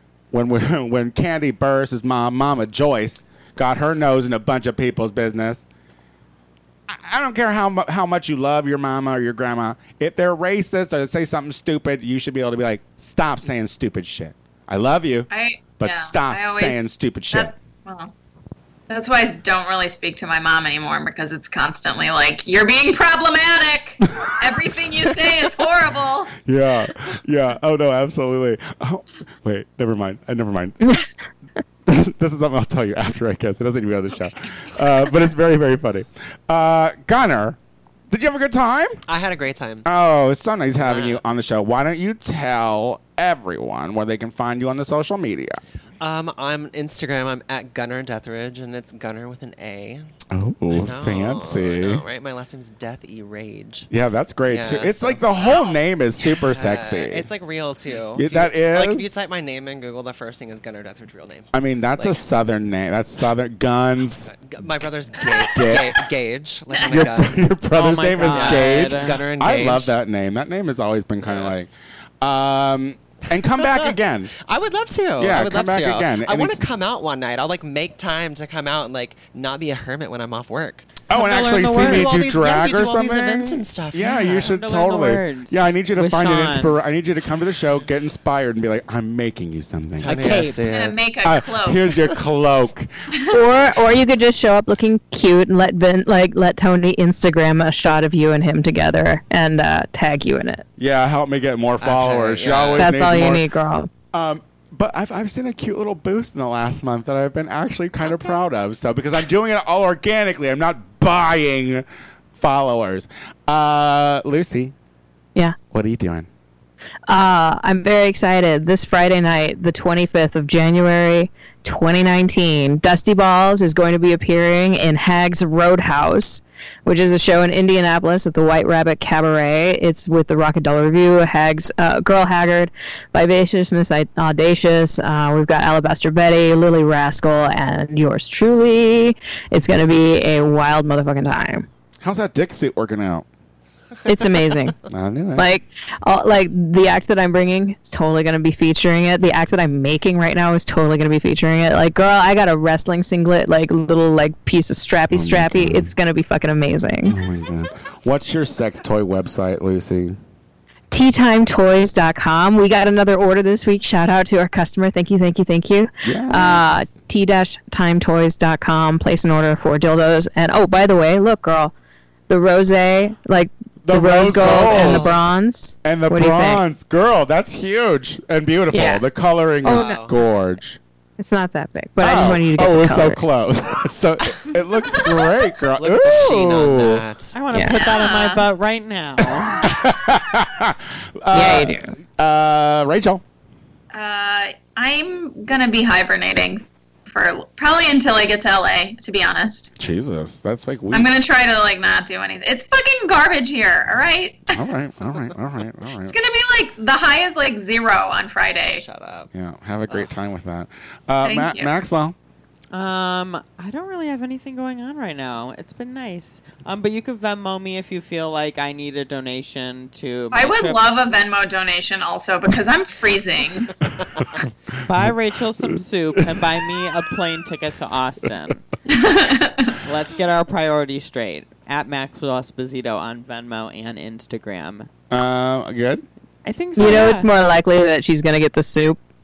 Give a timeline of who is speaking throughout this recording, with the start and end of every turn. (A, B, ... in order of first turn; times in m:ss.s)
0:00.3-0:05.6 A
0:06.9-0:17.5 A
0:15.3-0:18.1 B
0:18.9-0:26.3 B
0:24.0-0:25.6 A
0:26.4-0:31.0 A
0:31.8-0:37.6 A
0:38.1-0:39.0 A
0:39.1-0:39.8 C
0:39.8-0:45.6 A
0:40.8-0:41.2 C
0:46.0-0:50.1 C
0:50.3-0:52.0 A
0:50.7-0:53.9 C
0:53.9-0:57.3 A
0:54.5-0:55.2 C
0:55.4-0:55.7 B
0:56.3-1:02.2 C
0:58.2-0:59.0 A
1:01.5-1:04.3 A
1:04.2-1:10.0 C
1:05.2-1:06.0 A
1:06.8-1:11.7 A
1:07.7-1:09.2 D
1:11.2-1:11.5 C
1:12.2-1:14.3 A
1:13.6-1:24.5 C
1:15.2-1:16.6 A
1:21.1-1:30.4 A
1:21.1-1:22.1 D
1:24.2-1:26.8 D
1:30.0-1:31.0 C
1:30.0-1:30.7 D
1:30.7-1:31.9 B
1:31.2-1:32.9 A
1:33.3-1:40.6 E
1:40.8-1:43.4 A
1:41.8-1:42.9 C
1:42.8-1:43.9 E
1:44.1-1:54.7 A
1:55.7-1:56.3 A
1:57.1-2:21.6 E
2:22.0-2:23.2 A
2:24.0-2:24.8 E
2:24.9-2:25.5 A
2:25.4-2:37.2 E
2:35.1-2:35.9 A
2:37.0-2:40.2 A
2:40.9-2:51.7 E
2:46.0-2:46.9 A
2:52.3-2:56.6 E
2:53.8-2:55.3 A
2:54.4-2:55.2 C
2:55.8-3:00.8 A
2:58.7-2:59.0 E
2:59.6-3:00.1 E
2:59.7-3:00.1 C
3:01.2-3:03.2 E
3:02.0-3:07.0 A
3:05.8-3:07.3 C
3:07.3-3:09.6 D
3:07.5-3:07.8 E
3:07.6-3:08.4 B
3:09.5-3:13.2 A
3:11.3-3:11.9 E
3:13.9-3:19.7 B
3:19.8-3:21.3 A
3:20.9-3:24.6 B
3:24.5-3:26.1 A
3:26.0-3:28.8 B
3:28.6-3:29.3 C
3:29.3-3:32.1 A
3:31.2-3:31.7 B
3:32.7-3:40.8 D
3:40.3-3:43.8 B
3:44.2-3:44.4 A
3:44.8-3:48.7 D
3:48.9-3:49.8 B
3:49.8-3:54.9 D
3:55.1-3:56.0 A
3:56.4-3:57.3 D
3:56.8-3:59.0 E